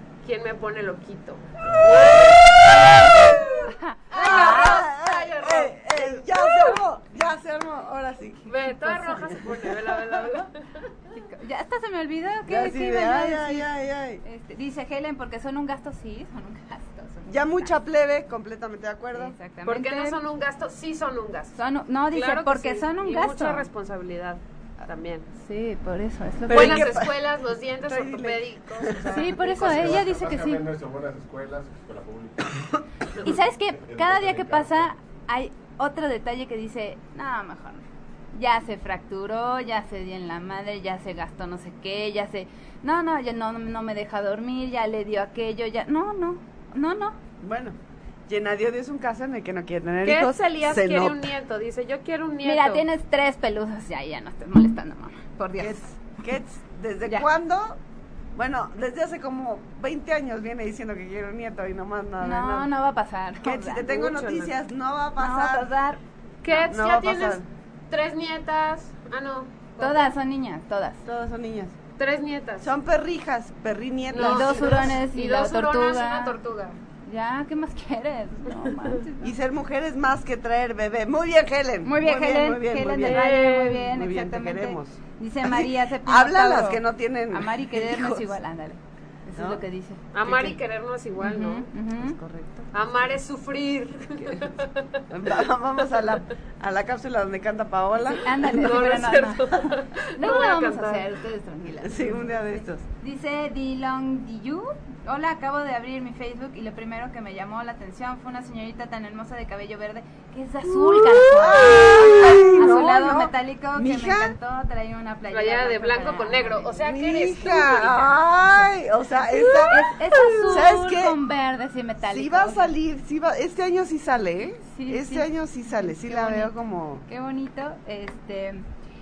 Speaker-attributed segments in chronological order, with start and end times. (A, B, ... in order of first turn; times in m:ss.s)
0:00.2-0:03.2 A
0:01.9-0:02.2 B
0:03.2-0:08.5 C
0:03.7-0:04.8 D
0:04.1-0:06.8 A
0:08.5-0:10.9 A
0:08.7-0:09.3 D
0:11.1-0:13.7 D
0:12.5-0:14.2 C
0:14.2-0:17.8 D
0:17.3-0:19.3 C
0:19.1-0:20.2 D
0:19.6-0:21.5 A
0:21.5-0:23.7 D
0:22.1-0:25.3 A
0:25.4-0:27.0 D
0:26.5-0:27.3 C
0:26.5-0:30.0 A
0:27.8-0:29.4 C
0:29.1-0:30.6 D
0:29.5-0:34.9 B
0:33.2-0:37.8 D
0:38.3-0:47.2 D
0:47.4-0:47.8 C
0:48.3-0:51.3 C
0:50.0-0:52.8 A
0:52.4-0:55.8 D
0:55.6-0:57.8 C
0:58.3-1:02.7 C
1:02.2-1:04.0 D
1:03.4-1:05.7 C
1:03.9-1:04.5 A
1:05.2-1:06.7 D
1:06.4-1:07.4 A
1:06.7-1:07.4 C
1:07.9-1:10.1 A
1:09.8-1:11.0 D
1:11.0-1:11.7 C
1:12.0-1:12.7 A
1:12.6-1:15.0 C
1:14.1-1:16.8 A
1:14.2-1:16.4 D
1:17.0-1:19.3 D
1:19.2-1:28.2 C
1:21.8-1:30.6 D
1:23.0-1:23.8 A
1:29.4-1:29.6 C
1:30.1-1:31.7 A
1:31.2-1:32.2 D
1:32.0-1:32.7 C
1:32.7-1:35.0 A
1:35.1-1:38.2 C
1:38.2-1:56.8 D
1:38.5-1:41.0 A
1:41.8-1:42.8 C
1:50.7-1:54.3 C
1:55.3-1:58.2 A
1:56.8-2:01.2 C
1:59.4-2:02.7 D
2:02.1-2:07.0 C
2:04.7-2:06.5 D
2:07.0-2:08.6 D